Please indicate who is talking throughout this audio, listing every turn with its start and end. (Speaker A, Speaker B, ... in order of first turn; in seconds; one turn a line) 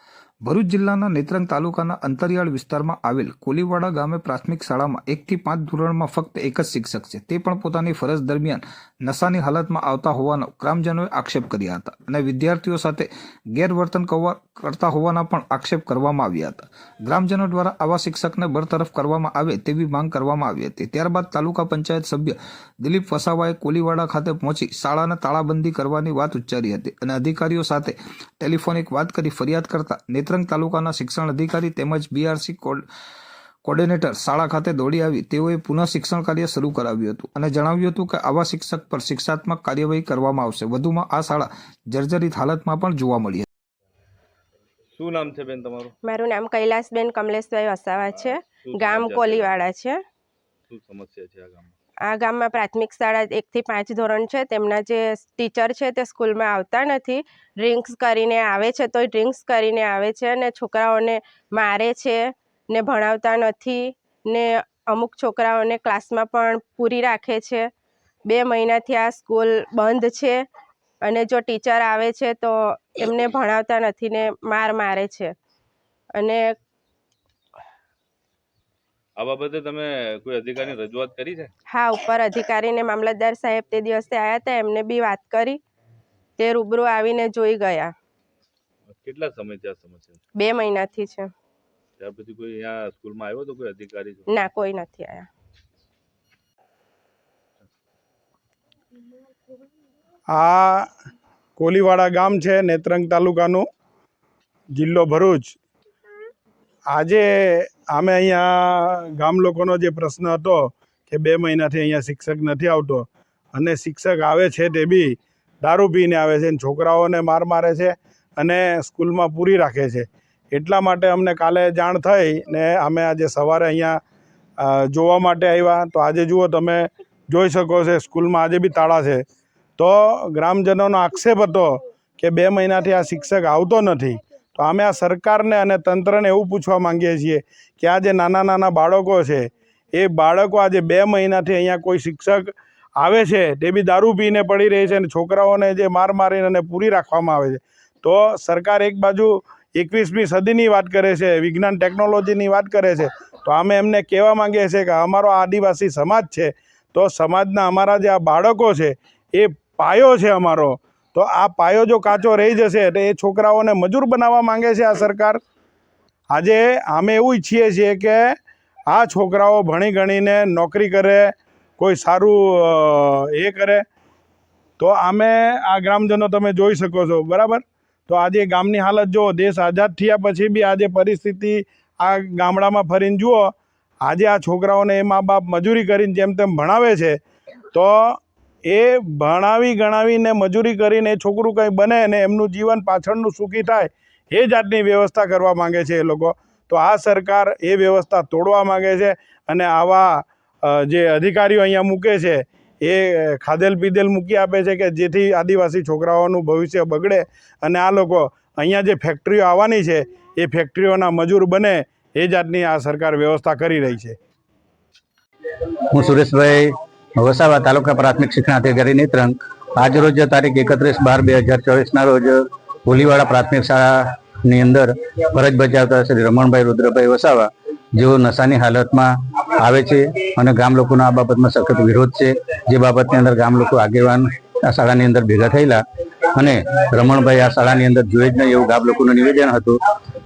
Speaker A: 0.5-32.8
Speaker A: 33.6-43.5
Speaker B: 45.0-45.9
Speaker C: 46.0-50.0
Speaker B: 48.1-49.6
Speaker B: 50.7-51.7
Speaker C: 52.1-62.2
Speaker C: 62.7-67.7
Speaker C: 68.3-70.4
Speaker C: 71.0-75.3
Speaker C: 76.2-76.5
Speaker B: 79.2-81.5
Speaker C: 81.7-85.6
Speaker C: 86.4-87.9
Speaker B: 88.9-90.2
Speaker C: 90.4-91.3
Speaker B: 92.0-94.4
Speaker C: 94.3-95.3
Speaker D: 100.3-100.9
Speaker D: 101.6-103.7
Speaker D: 104.7-105.6
Speaker D: 106.9-124.0
Speaker D: 124.6-129.2
Speaker D: 129.8-165.4
Speaker D: 166.3-168.4
Speaker D: 168.9-173.8
Speaker D: 174.8-187.2
Speaker D: 187.7-214.2
Speaker E: 215.9-235.8
Speaker E: 236.3-239.8